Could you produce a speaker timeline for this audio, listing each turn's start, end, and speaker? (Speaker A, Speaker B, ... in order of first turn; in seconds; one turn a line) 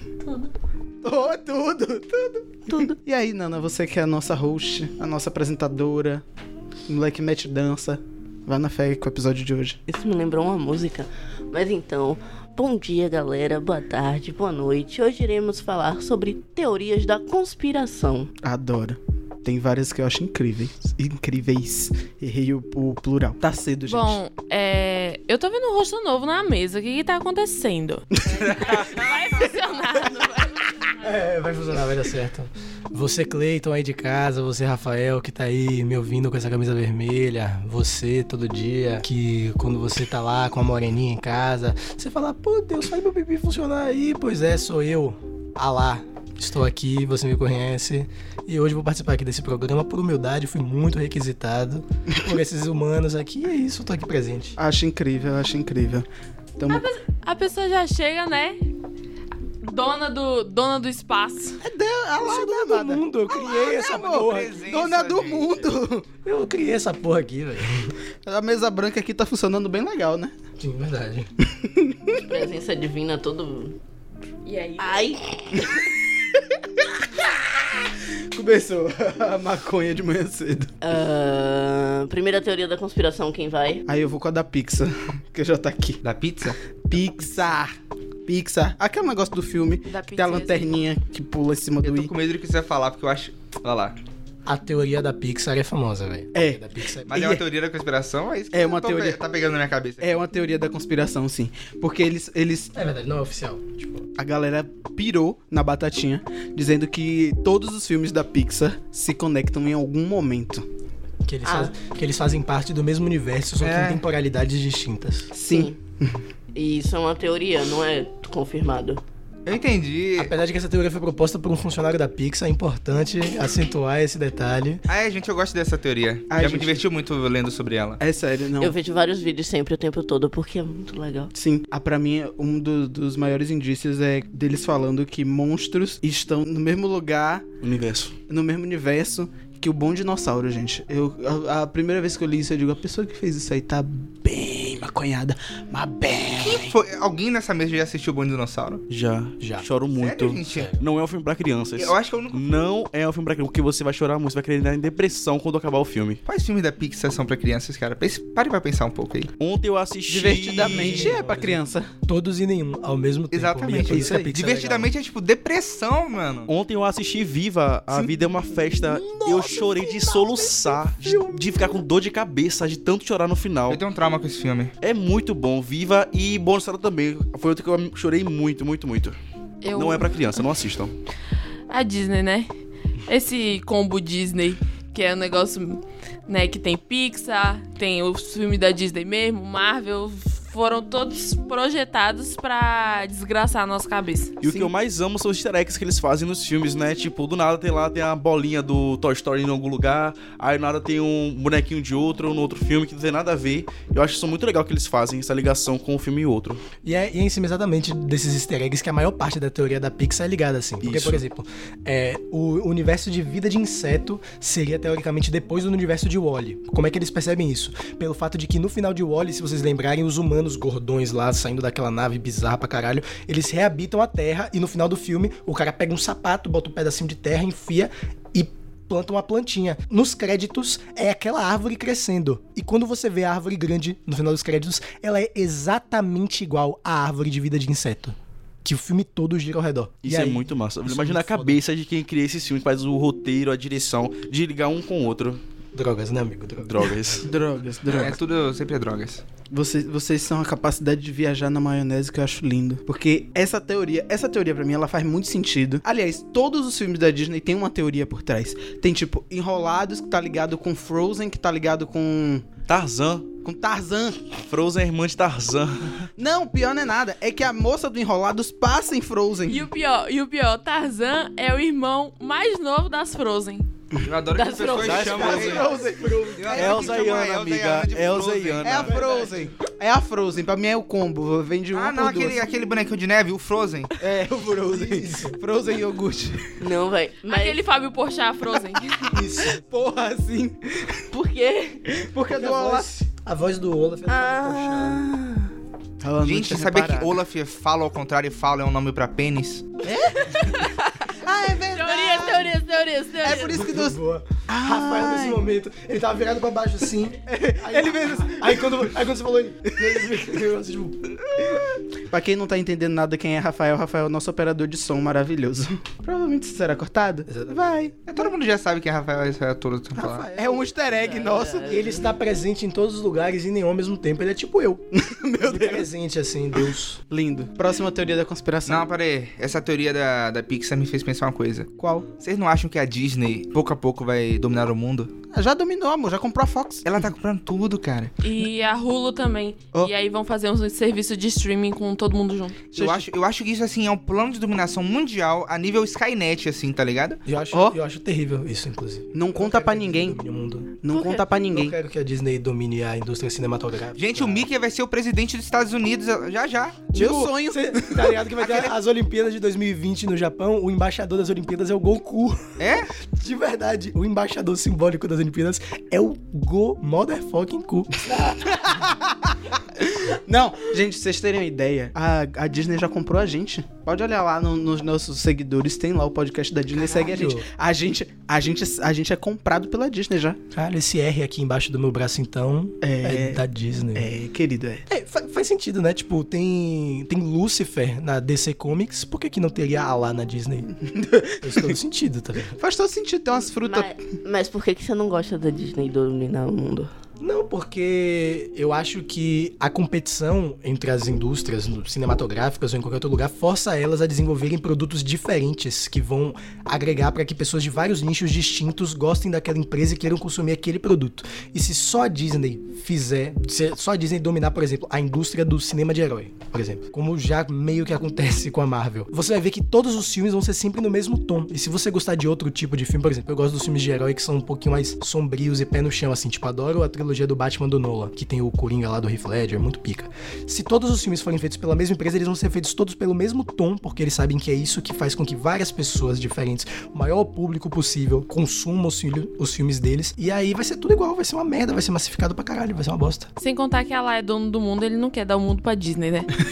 Speaker A: 1.0-6.2
Speaker B: 2.7-2.9
Speaker A: 6.9-9.8
Speaker B: 9.9-18.3
Speaker A: 18.4-24.2
Speaker C: 23.9-30.9
Speaker A: 28.3-28.8
Speaker D: 28.6-29.1
Speaker E: 31.0-54.6
Speaker A: 54.6-56.0
Speaker A: 56.6-56.8
Speaker C: 56.7-58.6
Speaker C: 59.6-61.6
Speaker A: 61.6-63.0
Speaker E: 62.2-64.5
Speaker D: 63.4-65.7
Speaker A: 63.7-66.0
Speaker E: 66.2-67.9
Speaker A: 68.2-70.3
Speaker E: 70.6-71.3
Speaker A: 71.5-72.2
Speaker B: 72.2-73.8
Speaker C: 74.4-75.1
Speaker B: 74.8-75.8
Speaker A: 76.3-76.9
Speaker A: 78.3-80.7
Speaker B: 80.8-83.8
Speaker A: 83.9-86.0
Speaker D: 86.0-86.6
Speaker A: 86.9-87.7
Speaker A: 88.2-92.1
Speaker C: 89.9-90.8
Speaker D: 91.8-94.0
Speaker E: 94.5-97.1
Speaker A: 96.3-97.4
Speaker D: 97.1-100.1
Speaker A: 98.5-99.2
Speaker A: 100.0-102.7
Speaker E: 102.7-104.1
Speaker A: 104.2-110.7
Speaker E: 111.2-115.3
Speaker B: 111.4-111.7
Speaker D: 113.6-114.0
Speaker A: 115.3-116.2
Speaker B: 115.5-115.7
Speaker B: 116.5-119.0
Speaker D: 119.5-120.3
Speaker E: 120.2-124.8
Speaker D: 124.9-128.0
Speaker A: 126.3-126.8
Speaker A: 128.0-128.8
Speaker B: 128.6-131.3
Speaker A: 131.3-137.5
Speaker F: 137.6-138.1
Speaker A: 138.3-146.7
Speaker D: 146.4-148.8
Speaker F: 148.9-156.2
Speaker E: 149.4-149.7
Speaker D: 150.0-150.7
Speaker E: 150.5-150.8
Speaker D: 151.8-152.4
Speaker D: 156.3-159.3
Speaker F: 159.4-161.2
Speaker A: 160.1-161.9
Speaker E: 160.6-164.9
Speaker D: 163.3-166.5
Speaker A: 163.9-164.3
Speaker F: 166.5-173.8
Speaker E: 168.9-171.5
Speaker D: 173.7-174.7
Speaker F: 174.8-179.2
Speaker C: 179.6-180.4
Speaker F: 179.8-180.9
Speaker C: 181.7-182.5
Speaker C: 183.1-194.3
Speaker F: 194.4-206.6
Speaker A: 194.4-194.7
Speaker E: 206.8-241.6
Speaker F: 210.8-211.2
Speaker F: 240.0-245.4
Speaker E: 245.7-247.3
Speaker F: 246.7-247.3
Speaker A: 247.2-248.2
Speaker D: 247.9-249.2
Speaker A: 249.5-262.5
Speaker F: 262.7-263.2
Speaker A: 263.4-264.3
Speaker F: 264.3-266.1
Speaker A: 266.2-269.6
Speaker C: 269.5-273.6
Speaker D: 274.0-275.8
Speaker B: 274.3-275.8
Speaker F: 274.8-275.6
Speaker A: 274.9-277.1
Speaker E: 275.5-276.9
Speaker D: 276.4-278.9
Speaker F: 276.5-278.9
Speaker A: 278.6-282.4
Speaker E: 278.9-279.5
Speaker D: 281.7-283.9
Speaker A: 284.0-286.5
Speaker E: 284.6-285.4
Speaker B: 286.6-287.6
Speaker C: 287.3-288.9
Speaker A: 288.8-291.0
Speaker E: 288.9-289.6
Speaker B: 291.1-291.9
Speaker A: 291.9-292.9
Speaker E: 292.3-295.0
Speaker B: 294.1-295.5
Speaker A: 296.0-297.1
Speaker D: 296.2-299.9
Speaker A: 299.8-302.5
Speaker C: 300.3-300.6
Speaker C: 301.7-303.4
Speaker B: 301.8-303.7
Speaker A: 303.2-305.4
Speaker E: 303.5-311.5
Speaker A: 307.2-308.8
Speaker A: 309.8-310.2
Speaker A: 311.5-317.9
Speaker E: 317.3-317.8
Speaker D: 318.1-320.3
Speaker E: 319.9-320.8
Speaker A: 320.3-321.9
Speaker B: 321.0-322.0
Speaker E: 321.6-324.8
Speaker A: 324.9-325.9
Speaker E: 325.4-327.0
Speaker A: 327.1-328.8
Speaker D: 328.6-335.1
Speaker A: 331.8-332.1
Speaker A: 335.3-336.9
Speaker D: 336.8-338.1
Speaker C: 338.2-342.6
Speaker D: 342.7-347.2
Speaker A: 342.8-343.1
Speaker E: 347.2-350.9
Speaker A: 349.1-350.2
Speaker A: 350.8-351.7
Speaker B: 350.9-351.2
Speaker E: 351.4-354.4
Speaker D: 354.0-356.9
Speaker A: 356.9-358.2
Speaker E: 356.9-368.8
Speaker D: 358.4-358.7
Speaker D: 362.6-362.9
Speaker A: 368.8-369.1
Speaker A: 369.8-380.4
Speaker E: 376.8-377.4
Speaker E: 380.5-384.1
Speaker A: 382.8-383.4
Speaker A: 383.9-384.8
Speaker E: 384.9-390.7
Speaker A: 390.8-391.8
Speaker E: 391.4-392.6
Speaker A: 392.6-393.9
Speaker B: 393.5-396.9
Speaker E: 397.2-443.3
Speaker C: 443.4-446.3